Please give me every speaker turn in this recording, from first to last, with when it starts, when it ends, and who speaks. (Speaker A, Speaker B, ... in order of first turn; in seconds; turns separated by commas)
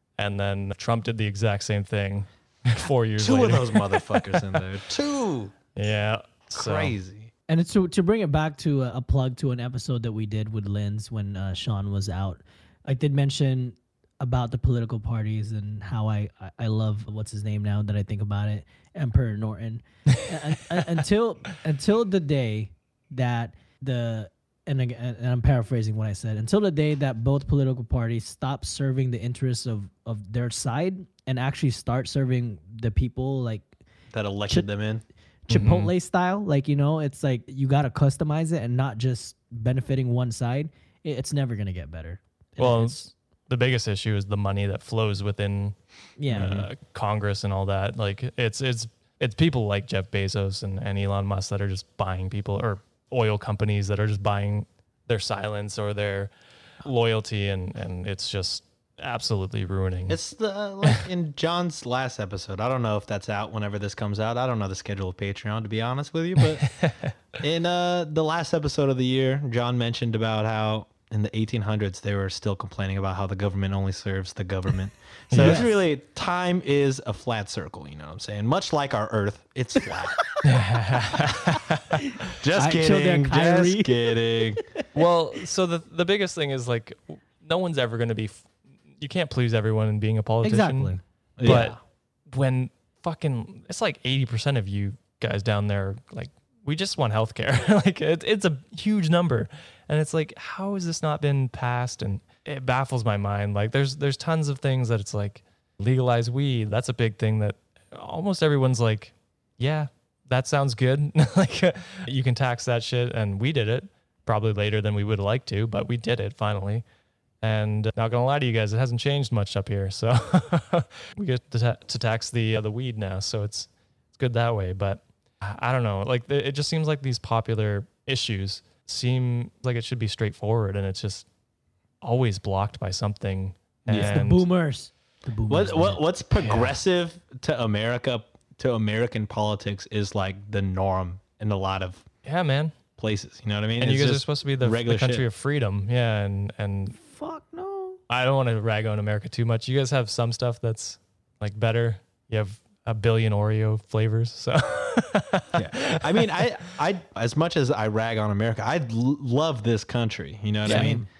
Speaker A: 0.2-4.4, Speaker B: 3.2-5.5, Speaker A: 5.7-7.0, Speaker B: 6.5-7.3, Speaker C: 7.5-33.7, Speaker B: 34.1-35.0, Speaker C: 35.5-43.0, Speaker A: 35.5-35.9, Speaker A: 42.6-45.8, Speaker C: 46.2-46.5, Speaker A: 46.3-56.3, Speaker B: 46.3-46.7, Speaker A: 56.8-60.2, Speaker B: 60.1-66.7, Speaker A: 66.6-67.1, Speaker B: 67.4-80.3, Speaker A: 75.3-75.7, Speaker C: 75.4-75.7, Speaker A: 80.4-82.1, Speaker B: 82.4-84.6, Speaker C: 82.5-84.0, Speaker A: 84.9-91.8, Speaker C: 90.4-91.6, Speaker B: 91.4-91.8, Speaker A: 92.3-116.8, Speaker A: 117.4-131.3, Speaker A: 132.0-134.4, Speaker B: 133.9-134.2, Speaker C: 134.0-136.0, Speaker B: 135.5-142.0, Speaker A: 136.3-136.8, Speaker A: 142.2-142.7, Speaker B: 143.0-145.3, Speaker A: 143.8-147.0, Speaker C: 146.9-148.0, Speaker A: 148.1-156.5, Speaker B: 155.6-161.1, Speaker A: 160.6-161.0, Speaker C: 160.6-161.1